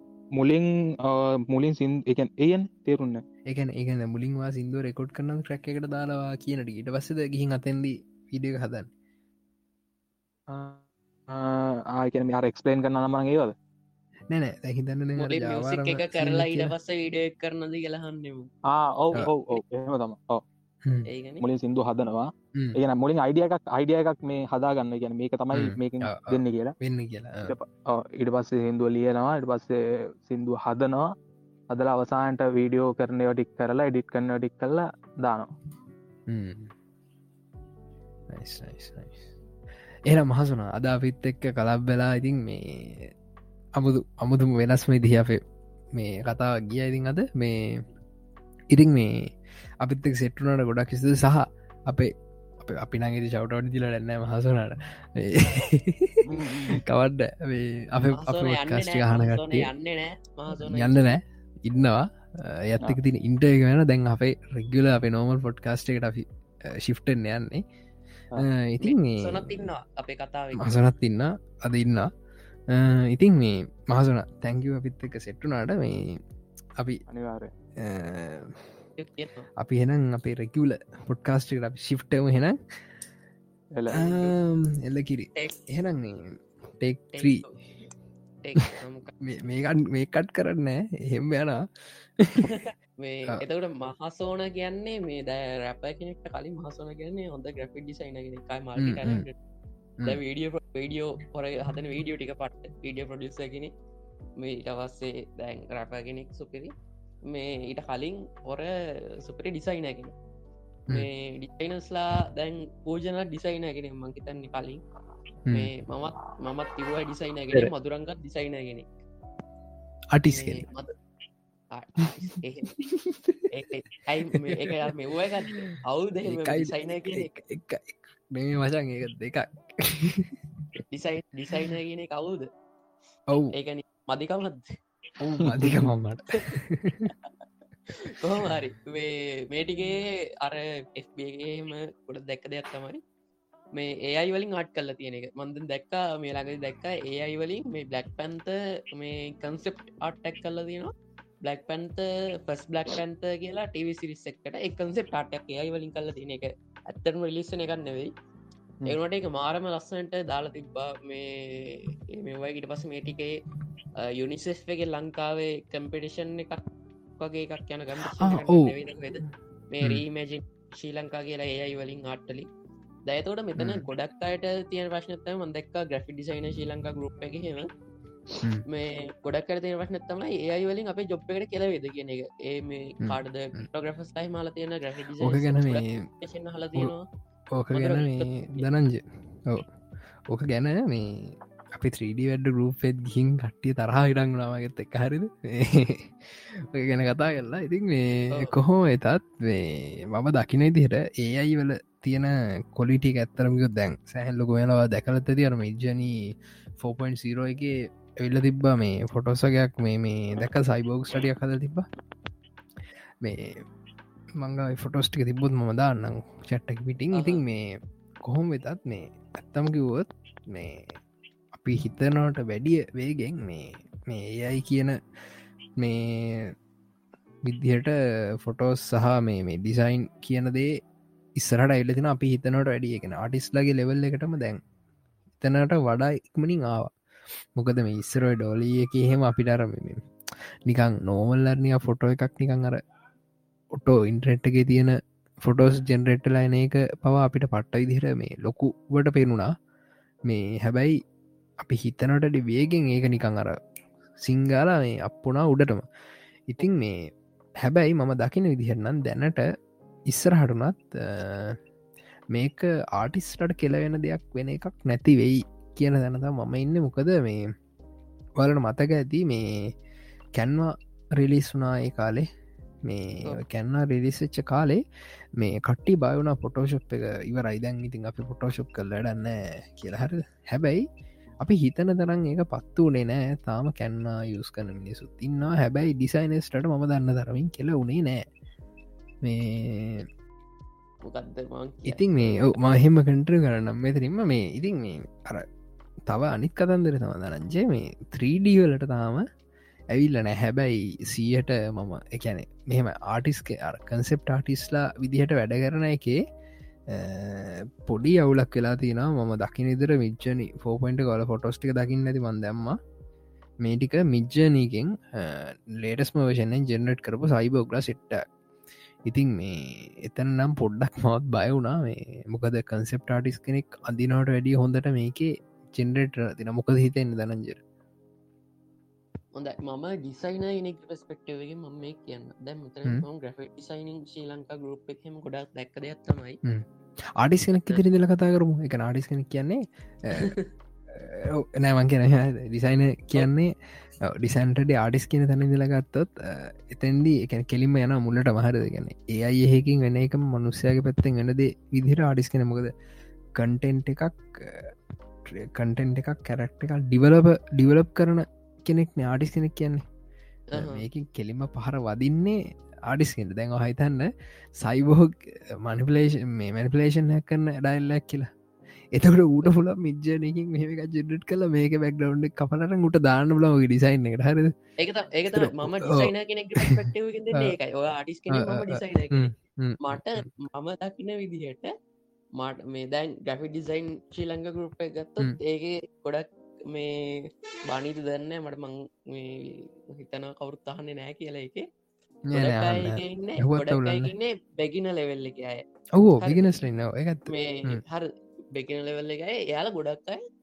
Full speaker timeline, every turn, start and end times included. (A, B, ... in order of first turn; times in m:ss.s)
0:00.4-0:03.2 A
0:03.5-0:08.9 B
0:10.5-0:13.5 A
0:14.3-0:16.7 B
0:15.2-0:18.5 C
0:18.7-0:20.4 A
0:21.1-0:21.4 C
0:21.4-0:26.7 A
0:25.5-0:27.5 B
0:27.5-0:31.1 A
0:31.7-0:35.5 A
0:36.3-0:36.7 B
0:38.3-0:39.2 B
0:40.1-0:43.1 B
0:43.8-0:45.4 B
0:45.9-0:47.8 B
0:48.7-0:49.3 B
0:49.8-0:56.2 B
0:56.3-0:56.6 C
0:56.3-0:56.7 A
0:56.7-0:59.7 B
0:58.1-1:01.1 C
1:00.5-1:07.6 B
1:08.4-1:09.7 B
1:08.8-1:10.7 C
1:10.6-1:12.1 B
1:12.7-1:16.2 B
1:17.1-1:17.5 A
1:17.8-1:18.6 B
1:19.0-1:19.5 C
1:19.6-1:22.6 B
1:23.7-1:24.2 A
1:23.9-1:27.4 B
1:27.2-1:27.6 C
1:28.4-1:29.1 C
1:29.2-1:32.5 B
1:32.4-1:39.3 C
1:38.8-1:39.2 B
1:40.0-1:43.7 C
1:44.4-1:46.7 C
1:47.3-1:50.1 C
1:50.9-1:54.8 C
1:55.5-1:58.8 C
2:00.1-2:00.6 B
2:00.3-2:00.9 C
2:01.7-2:02.8 C
2:02.0-2:03.4 B
2:03.5-2:07.3 C
2:04.3-2:04.8 B
2:05.5-2:10.8 B
2:10.9-2:12.5 C
2:13.5-2:14.8 C
2:15.2-2:15.9 A
2:15.4-2:17.1 B
2:17.9-2:23.0 C
2:23.7-2:30.9 C
2:31.4-2:38.1 C
2:38.9-2:43.4 C
2:44.0-2:46.6 C
2:47.2-2:52.5 C
2:48.0-2:49.3 B
2:53.0-2:57.7 C
2:53.6-2:53.8 B
2:58.7-3:07.0 C
3:03.0-3:03.7 B
3:05.2-3:06.0 B
3:07.5-3:09.7 B
3:07.7-3:08.6 C
3:10.3-3:31.8 B
3:33.2-3:33.6 B
3:34.4-3:37.7 B
3:37.1-3:37.4 C
3:38.2-3:41.0 B
3:41.5-3:45.0 B
3:45.8-3:46.5 B
3:47.4-3:50.7 B
3:51.4-3:54.6 B
3:55.4-3:56.9 B
3:57.6-4:00.0 B
4:00.6-4:02.8 B
4:03.7-4:09.5 B
4:10.3-4:11.0 B
4:11.6-4:13.6 B
4:14.2-4:15.8 B
4:16.5-4:17.0 B
4:17.6-4:19.4 B
4:20.1-4:21.6 B
4:22.3-4:27.4 B
4:28.4-4:29.7 B
4:30.4-4:32.2 B
4:32.8-4:34.8 B
4:35.4-4:40.8 B
4:41.4-4:48.2 B
4:49.2-4:50.1 B
4:51.0-4:52.8 C
4:51.9-4:55.4 B
4:56.1-4:59.2 B
4:59.9-5:06.2 B
5:06.9-5:12.8 B
5:13.6-5:18.2 B
5:19.0-5:27.6 B
5:29.4-5:36.4 C
5:37.2-5:40.3 B
5:40.1-5:40.5 C
5:40.9-5:43.5 B
5:44.1-5:52.7 B
5:53.4-5:54.7 B
5:55.2-5:59.8 B
6:00.5-6:00.8 C
6:00.5-6:04.1 B
6:04.6-6:08.3 B
6:08.9-6:14.5 B
6:14.8-6:19.3 C
6:15.3-6:17.5 B
6:18.3-6:20.2 B
6:19.8-6:21.7 C
6:22.4-6:31.6 C
6:32.3-6:34.1 B
6:32.3-6:35.6 C
6:36.0-6:37.8 B
6:36.2-6:36.6 C
6:37.3-6:40.2 C